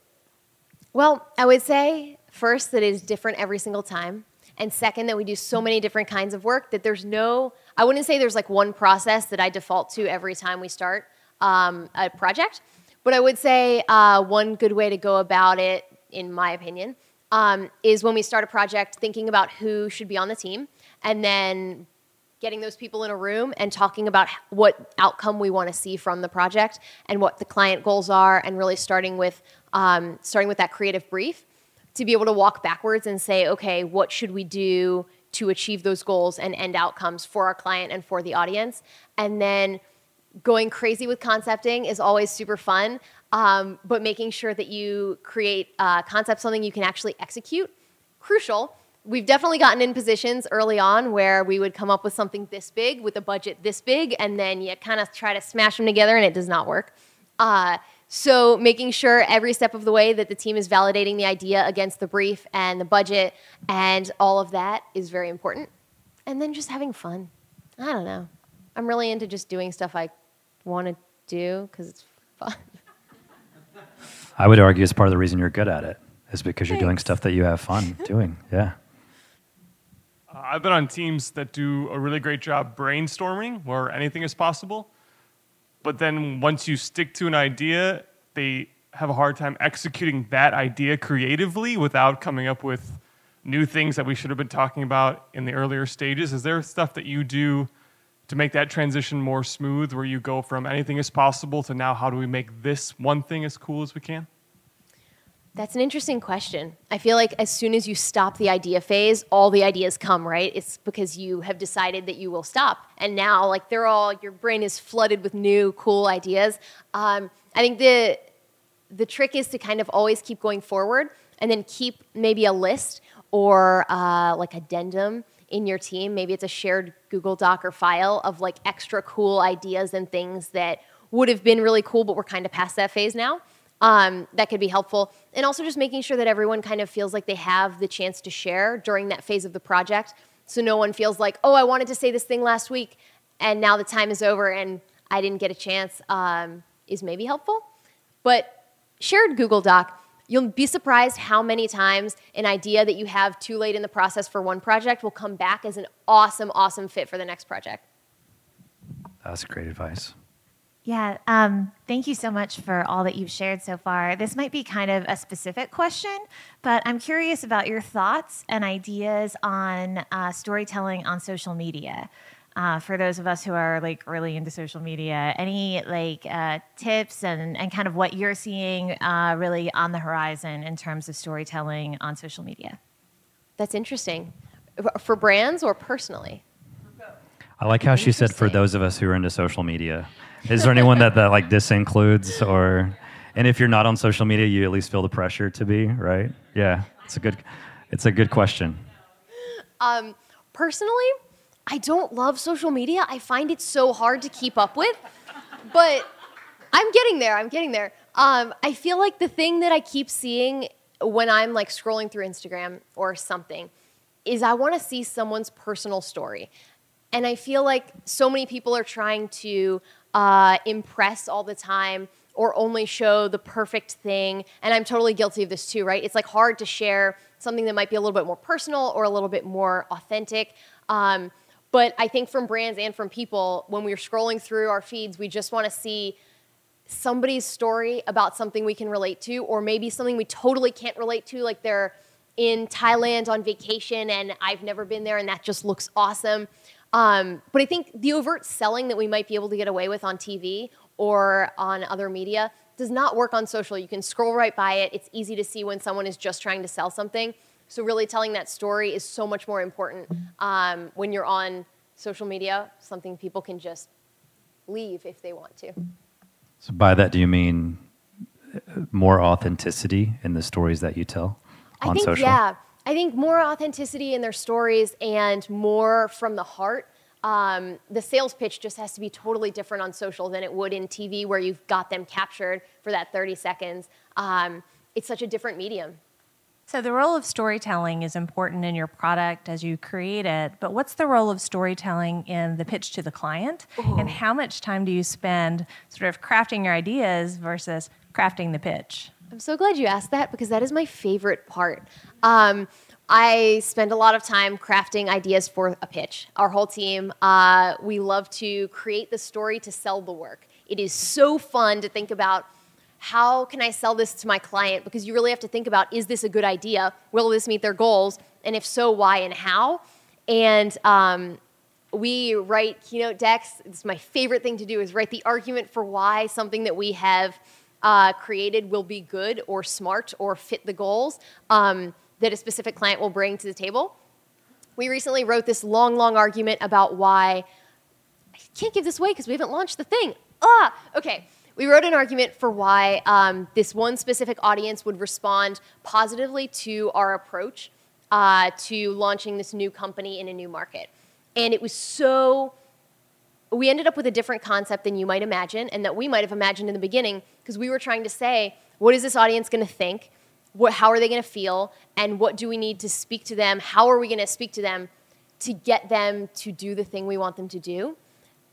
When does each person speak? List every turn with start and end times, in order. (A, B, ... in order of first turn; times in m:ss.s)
0:00.9-0:21.8 A
0:22.4-0:31.4 A
0:31.9-0:39.8 A
0:40.4-1:05.7 A
1:06.3-1:10.1 A
1:10.6-1:12.6 A
1:14.4-1:18.7 B
1:16.7-1:17.0 A
1:20.3-1:24.9 C
1:25.8-1:37.7 C
1:38.3-1:44.3 C
1:45.6-1:58.2 A
1:58.9-2:27.6 A
2:28.2-2:37.8 A
2:39.2-2:40.2 B
2:40.8-3:02.8 D
3:03.6-3:06.4 A
3:07.6-3:18.9 B
3:07.9-3:08.6 A
3:19.8-3:21.1 A
3:21.7-3:25.0 A
3:25.6-3:26.1 A
3:26.7-3:33.7 A
3:34.2-3:36.5 A
3:37.1-3:56.2 A
3:56.9-4:23.9 A
4:24.7-4:25.8 A
4:26.6-4:27.8 B
4:28.6-4:32.4 B
4:31.8-4:46.0 A
4:46.7-4:59.1 E
4:53.8-4:54.2 A
4:59.3-5:12.5 A
5:13.0-5:21.4 A
5:21.9-5:33.9 A
5:34.8-5:37.4 A
5:38.5-5:52.5 A
5:53.5-6:04.9 A
6:05.4-6:08.0 A